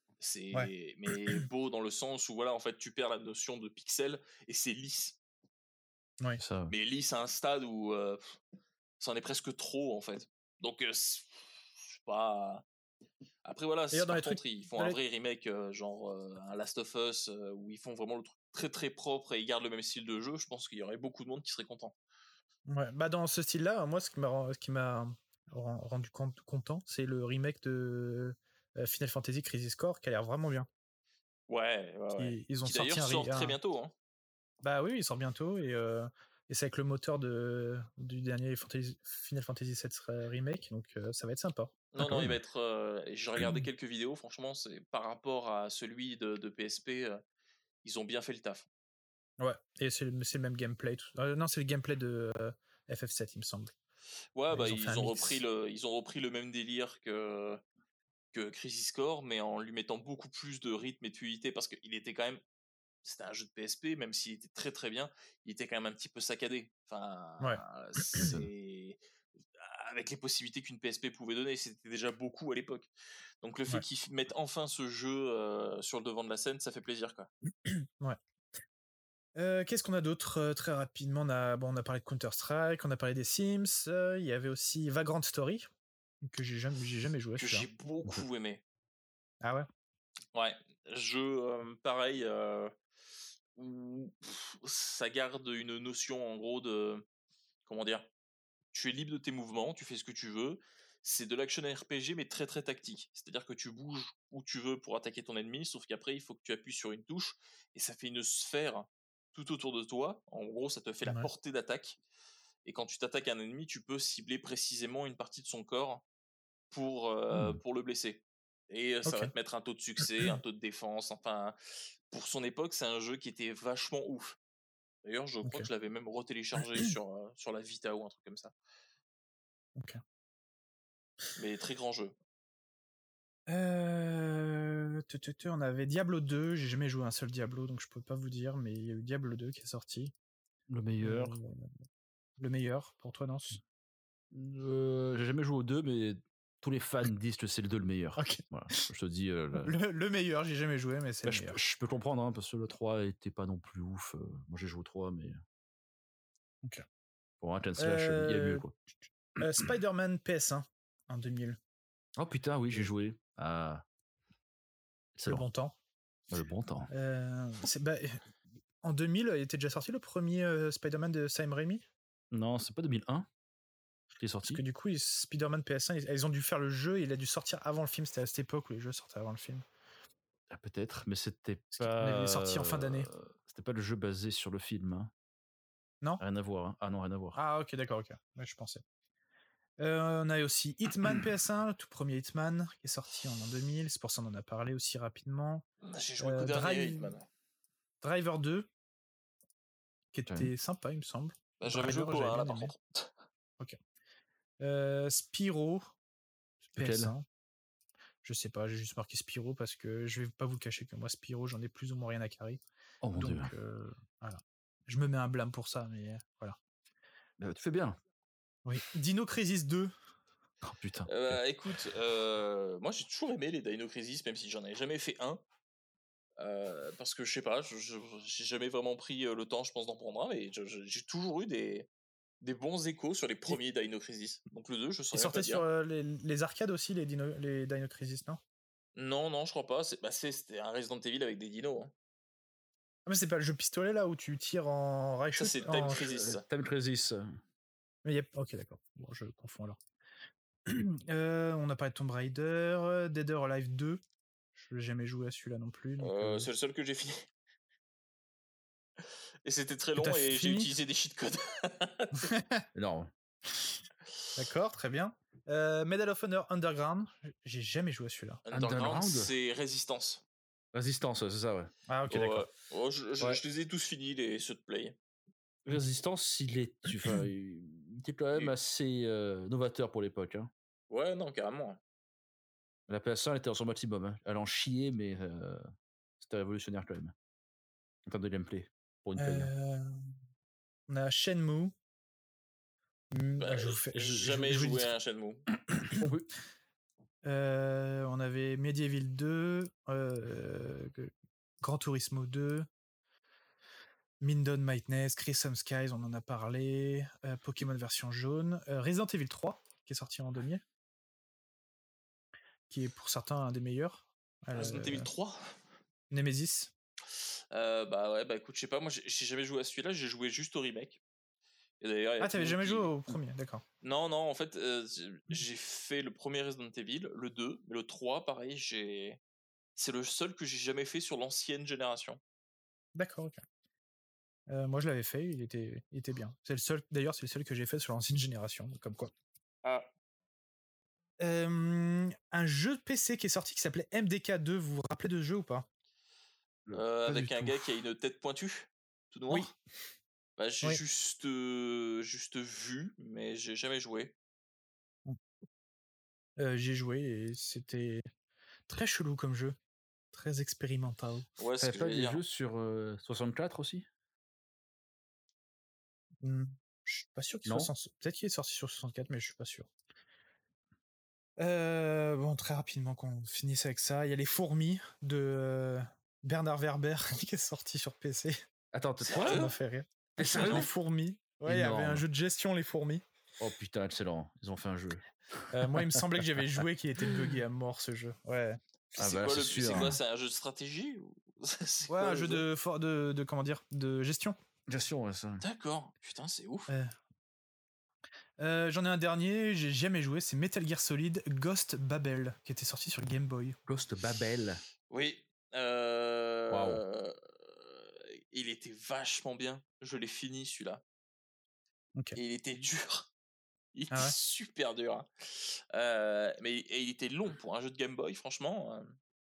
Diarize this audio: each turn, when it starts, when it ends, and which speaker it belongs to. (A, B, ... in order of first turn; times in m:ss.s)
0:00.2-0:05.2 A
0:06.4-0:06.7 B
0:06.7-0:08.4 A
0:09.0-0:12.6 A
0:13.4-0:22.0 A
0:13.9-0:15.0 C
0:22.7-0:30.7 C
0:31.5-0:33.9 A
0:32.2-0:33.6 C
0:34.6-0:42.4 C
0:41.9-0:47.2 A
0:47.8-0:48.7 A
0:49.4-0:53.7 C
0:54.4-0:57.6 A
0:54.5-0:55.4 C
0:58.3-1:02.4 A
1:03.0-1:09.0 A
1:07.4-1:08.3 C
1:09.6-1:12.9 A
1:13.4-1:17.3 A
1:17.6-1:18.2 C
1:19.4-1:25.7 C
1:26.2-1:27.7 C
1:27.4-1:28.6 A
1:29.4-1:29.7 C
1:30.3-1:32.7 A
1:33.6-1:37.1 A
1:37.7-1:38.1 A
1:38.7-1:52.0 A
1:52.6-1:56.0 A
1:56.7-2:01.6 A
1:59.1-1:59.3 C
2:02.1-2:04.4 A
2:05.0-2:08.5 A
2:09.8-2:10.0 C
2:11.4-2:12.2 A
2:13.5-2:20.1 C
2:20.7-2:21.4 B
2:21.0-2:21.7 C
2:22.4-2:23.6 C
2:24.3-2:29.8 B
2:28.2-2:28.8 C
2:29.5-2:31.6 C
2:31.2-2:35.4 B
2:37.4-2:38.7 B
2:37.8-2:38.6 C
2:39.4-2:41.6 C
2:42.2-2:43.8 B
2:45.2-2:45.5 B
2:45.3-2:45.8 C
2:46.3-2:46.9 B
2:46.9-2:48.2 C
2:48.8-2:51.8 C
2:52.3-2:53.3 B
2:54.2-2:54.6 B
2:54.5-2:59.6 C
3:00.5-3:05.1 B
3:01.8-3:03.1 C
3:06.2-3:07.4 B
3:07.4-3:08.8 C
3:09.8-3:15.6 C
3:15.8-3:17.3 A
3:16.2-3:17.2 C
3:18.0-3:18.7 C
3:20.1-3:22.7 C
3:21.6-3:23.1 A
3:24.6-3:25.9 C
3:26.8-3:27.3 C
3:26.8-3:27.1 B
3:28.2-3:32.6 C
3:33.0-3:33.5 B
3:33.2-3:36.6 C
3:37.4-3:38.0 B
3:38.6-3:39.9 C
3:40.6-3:41.4 B
3:41.1-3:45.4 A
3:46.4-3:51.9 A
3:52.4-3:55.6 A
3:55.1-3:58.4 C
3:59.0-4:01.9 A
4:03.1-4:06.0 C
4:05.4-4:06.4 A
4:06.0-4:07.4 B
4:08.0-4:09.8 C
4:10.7-4:14.0 C
4:14.6-4:16.5 C
4:16.0-4:17.3 A
4:19.4-4:22.3 A
4:20.0-4:20.7 C
4:22.2-4:22.7 C
4:22.8-4:23.1 B
4:24.4-4:28.4 C
4:28.5-4:30.2 A
4:28.5-4:29.3 B
4:30.7-4:31.7 B
4:31.9-4:32.5 C
4:32.1-4:35.0 A
4:35.7-4:40.5 B
4:40.9-4:41.8 A
4:42.9-4:45.7 B
4:46.2-4:47.1 B
4:48.1-4:49.5 B
4:49.2-4:49.9 C
4:50.9-4:51.8 C
4:53.1-4:54.9 C
4:53.4-4:55.5 A
4:55.9-4:56.3 B
4:57.2-5:02.7 C
5:04.2-5:10.6 C
5:12.7-5:15.1 C
5:14.5-5:15.6 A
5:16.1-5:16.7 C
5:17.5-5:21.0 A
5:21.8-5:23.0 A
5:22.2-5:23.6 C
5:23.8-5:29.2 A
5:29.8-5:32.2 A
5:33.0-5:33.4 C
5:34.5-5:39.1 C
5:41.2-5:45.7 C
5:46.7-5:49.5 A
5:47.1-5:47.6 C
5:50.4-5:54.2 A
5:56.4-5:58.1 C
5:58.7-5:59.6 C
6:00.1-6:01.3 C
6:01.4-6:02.2 A
6:01.6-6:03.9 B
6:06.2-6:09.7 C
6:07.5-6:07.7 B
6:11.4-6:18.4 C
6:18.7-6:19.5 B
6:19.1-6:19.5 A
6:19.1-6:23.0 C
6:20.2-6:20.7 B
6:20.4-6:20.7 A
6:21.5-6:22.0 B
6:23.4-6:26.0 B
6:25.5-6:28.6 C
6:28.9-6:32.4 A
6:29.0-6:30.0 B
6:31.9-6:34.4 C
6:34.7-6:35.4 B
6:35.4-6:36.7 A
6:36.7-6:36.9 C
6:38.4-6:43.6 C
6:43.7-6:44.6 B
6:44.9-6:50.8 A
6:46.5-6:46.8 B
6:52.2-6:53.1 A
6:53.7-6:59.0 A